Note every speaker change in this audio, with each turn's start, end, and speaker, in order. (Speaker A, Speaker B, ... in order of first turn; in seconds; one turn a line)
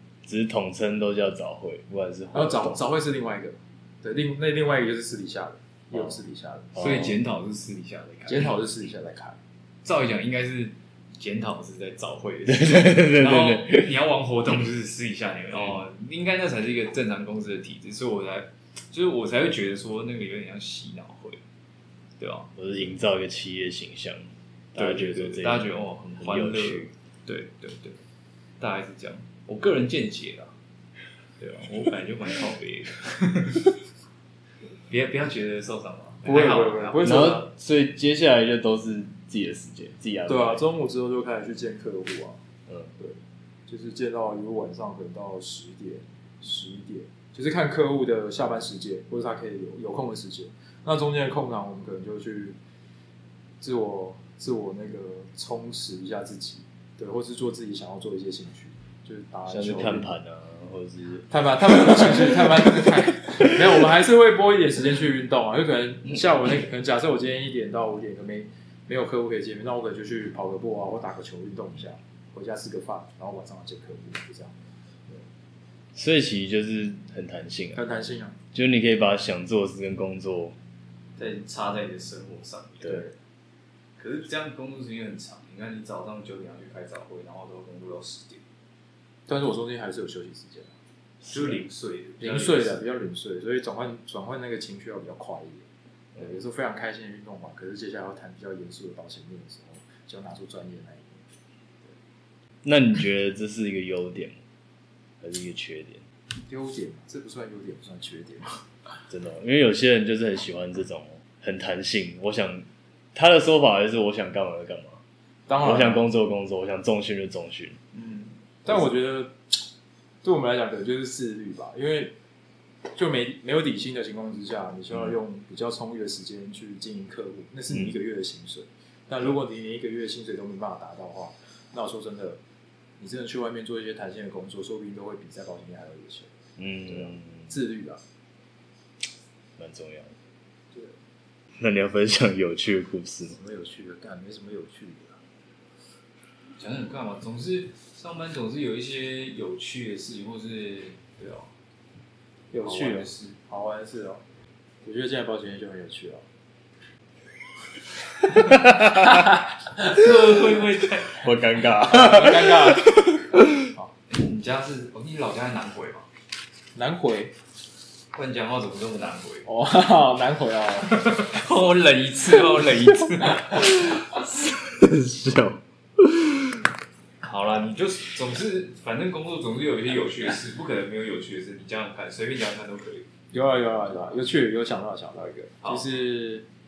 Speaker A: 0.2-2.8
Speaker B: 2.3-6.8
Speaker A: 6.8-7.2
Speaker C: 6.8-8.6
Speaker B: 8.3-9.4
Speaker C: 9.8-21.4
Speaker A: 12.5-13.9
Speaker C: 22.2-22.5
Speaker A: 22.6-26.9
Speaker C: 24.8-28.0
Speaker C: 28.6-30.5
Speaker C: 31.4-33.7
Speaker C: 34.9-37.4
Speaker B: 36.2-37.5
Speaker A: 37.0-40.6
Speaker B: 40.3-42.4
Speaker B: 43.0-52.6
Speaker B: 53.6-60.1
Speaker A: 59.5-63.7
Speaker B: 61.3-74.5
Speaker A: 76.0-77.8
Speaker B: 77.7-78.4
Speaker A: 78.5-80.6
Speaker C: 81.2-83.0
Speaker B: 82.8-83.1
Speaker C: 84.0-88.4
Speaker B: 89.3-90.7
Speaker A: 91.2-91.6
Speaker C: 91.3-92.8
Speaker B: 92.2-101.2
Speaker A: 102.6-104.4
Speaker A: 105.2-106.0
Speaker B: 106.5-108.6
Speaker A: 109.1-115.0
Speaker B: 115.5-116.1
Speaker A: 115.6-117.8
Speaker C: 117.9-118.3
Speaker B: 118.7-119.6
Speaker B: 120.2-122.1
Speaker B: 123.0-132.4
Speaker B: 133.0-136.3
Speaker A: 136.6-137.5
Speaker B: 136.8-138.0
Speaker A: 139.6-140.1
Speaker A: 141.6-143.4
Speaker B: 143.3-145.2
Speaker C: 146.6-151.5
Speaker B: 152.5-154.2
Speaker C: 152.6-153.4
Speaker B: 154.8-156.2
Speaker A: 158.3-159.2
Speaker C: 159.8-161.3
Speaker A: 161.2-163.7
Speaker B: 161.8-163.0
Speaker C: 164.1-166.1
Speaker B: 166.8-167.3
Speaker C: 168.1-169.5
Speaker B: 169.5-171.0
Speaker C: 170.9-173.8
Speaker A: 173.5-176.7
Speaker C: 177.2-183.1
Speaker B: 183.3-186.4